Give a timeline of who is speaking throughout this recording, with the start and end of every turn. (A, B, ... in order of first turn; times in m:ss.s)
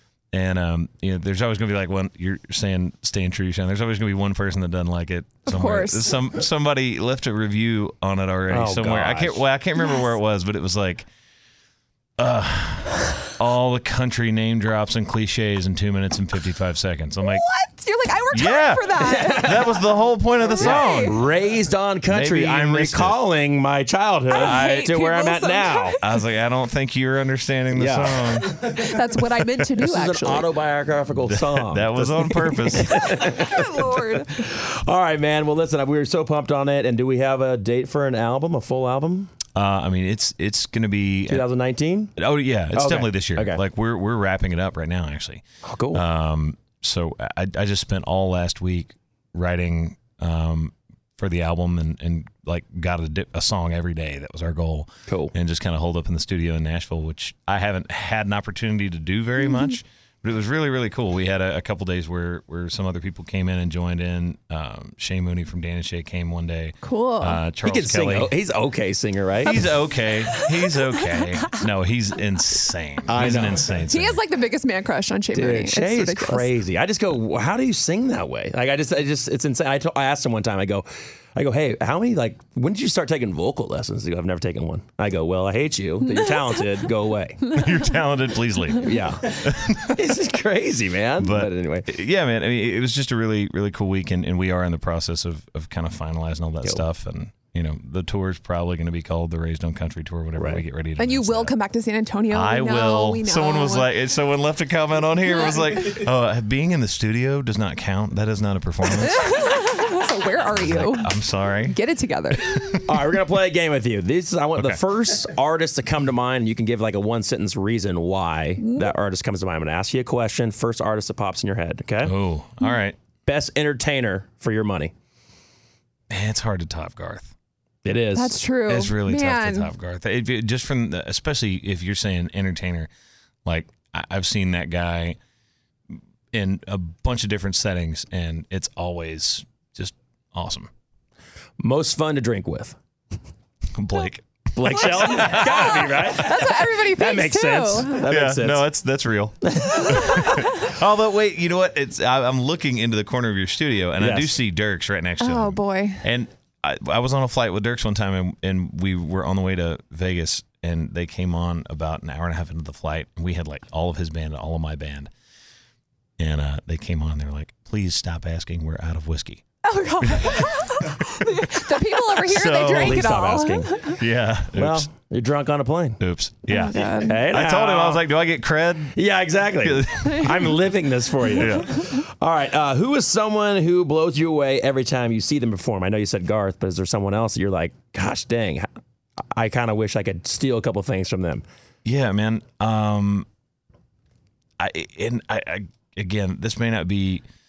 0:00.3-0:11.1 A
0:05.4-0:06.2 B
0:08.5-0:09.4 C
0:12.2-0:17.4 A
0:17.2-0:19.9 B
0:18.3-0:21.2 A
0:19.0-0:19.7 C
0:20.4-0:21.2 B
0:20.6-0:26.0 C
0:22.0-0:23.2 A
0:24.3-0:25.0 A
0:24.3-0:26.2 B
0:26.0-0:28.7 A
0:27.7-0:28.8 C
0:28.6-0:30.5 B
0:29.8-0:39.3 C
0:31.2-0:33.3 A
0:33.0-0:34.4 B
0:39.5-0:41.4 A
0:41.3-0:42.1 C
0:42.2-1:08.3 A
0:42.7-0:43.6 C
0:45.6-0:46.0 C
0:55.1-0:55.3 C
1:06.8-1:07.4 B
1:07.6-1:09.7 C
1:09.4-1:14.2 A
1:09.5-1:11.6 B
1:13.1-1:13.7 C
1:13.8-1:16.5 B
1:15.3-1:27.5 C
1:27.4-1:30.2 A
1:28.8-1:31.9 C
1:31.2-1:41.6 A
1:40.3-1:40.6 C
1:41.0-1:43.9 B
1:42.3-1:49.4 A
1:49.0-1:51.1 B
1:50.5-1:51.8 A
1:51.6-1:52.6 B
1:52.3-1:53.0 A
1:52.8-2:02.1 C
1:54.6-1:54.8 A
1:58.6-1:58.9 B
2:02.0-2:03.0 A
2:03.2-2:04.9 C
2:06.1-2:07.3 A
2:07.8-2:08.4 C
2:08.1-2:09.7 B
2:08.7-2:12.9 A
2:13.4-2:15.2 A
2:16.3-2:20.7 A
2:21.6-2:22.8 C
2:23.7-2:26.1 A
2:24.6-2:28.7 C
2:24.7-2:28.0 B
2:28.0-2:45.1 A
2:29.5-2:30.0 C
2:29.9-2:30.5 B
2:34.0-2:34.3 C
2:35.2-2:36.0 B
2:46.2-2:49.4 A
2:49.6-2:54.0 B
2:50.0-2:50.5 A
2:51.0-2:53.0 A
2:52.6-2:53.9 C
2:53.8-2:54.9 A
2:54.5-2:56.0 C
2:56.0-2:59.0 A
2:56.5-2:57.2 B
2:56.7-2:58.1 C
2:58.9-3:08.7 C
2:59.6-3:00.6 A
3:01.2-3:01.9 A
3:09.3-3:11.4 C
3:11.8-3:13.3 A
3:14.6-3:17.2 A